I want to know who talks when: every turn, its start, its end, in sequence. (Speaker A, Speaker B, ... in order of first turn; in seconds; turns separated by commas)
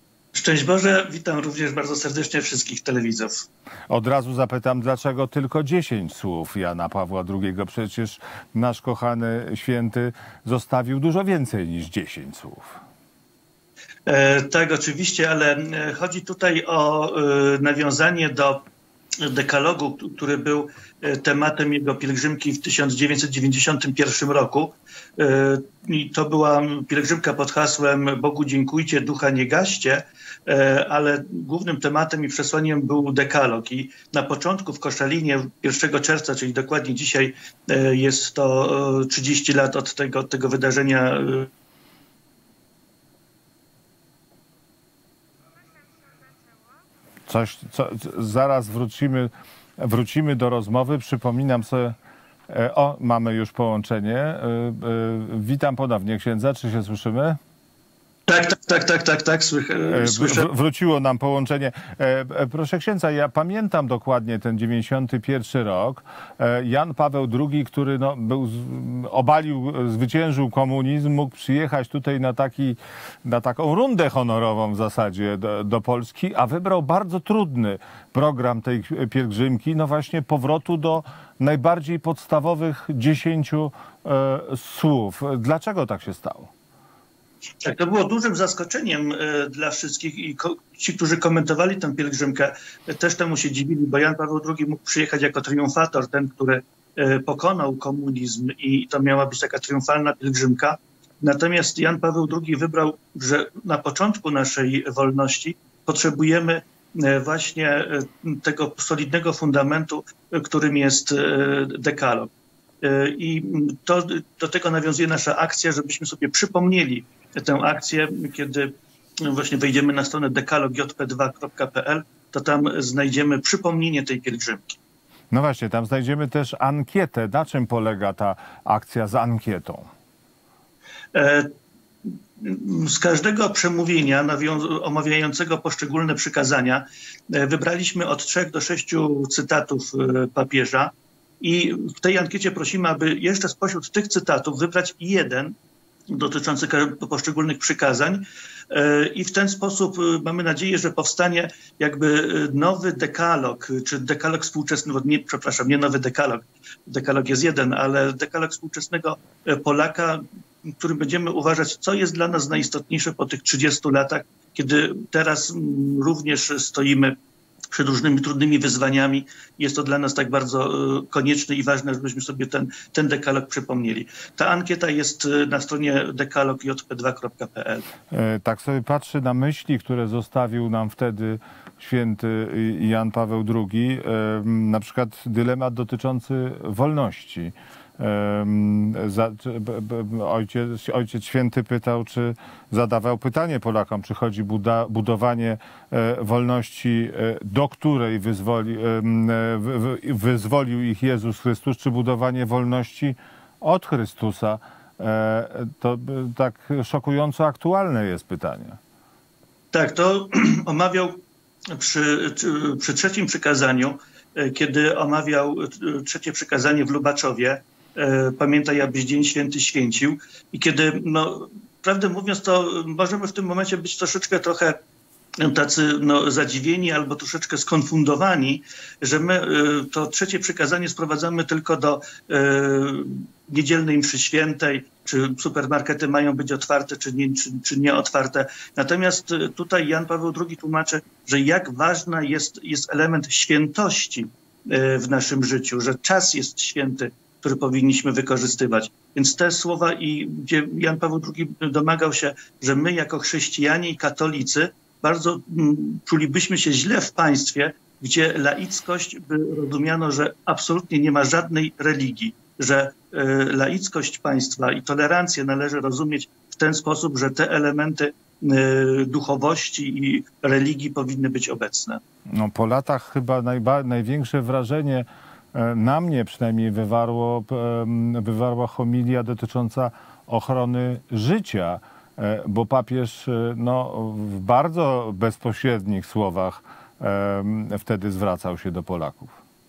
Speaker A: 0.3-3.5, Speaker B: 3.9-12.8, Speaker A: 14.1-18.7, Speaker A: 19.2-41.5, Speaker B: 47.3-51.9, Speaker B: 52.5-57.4, Speaker A: 58.3-60.5, Speaker B: 59.9-86.5, Speaker A: 87.6-112.3, Speaker A: 112.8-124.8, Speaker B: 125.3-129.9, Speaker A: 131.1-131.5, Speaker A: 132.0-145.6, Speaker A: 146.1-167.1, Speaker A: 167.7-177.9, Speaker B: 178.1-208.8, Speaker A: 209.7-224.8, Speaker A: 225.4-272.0, Speaker B: 272.3-289.3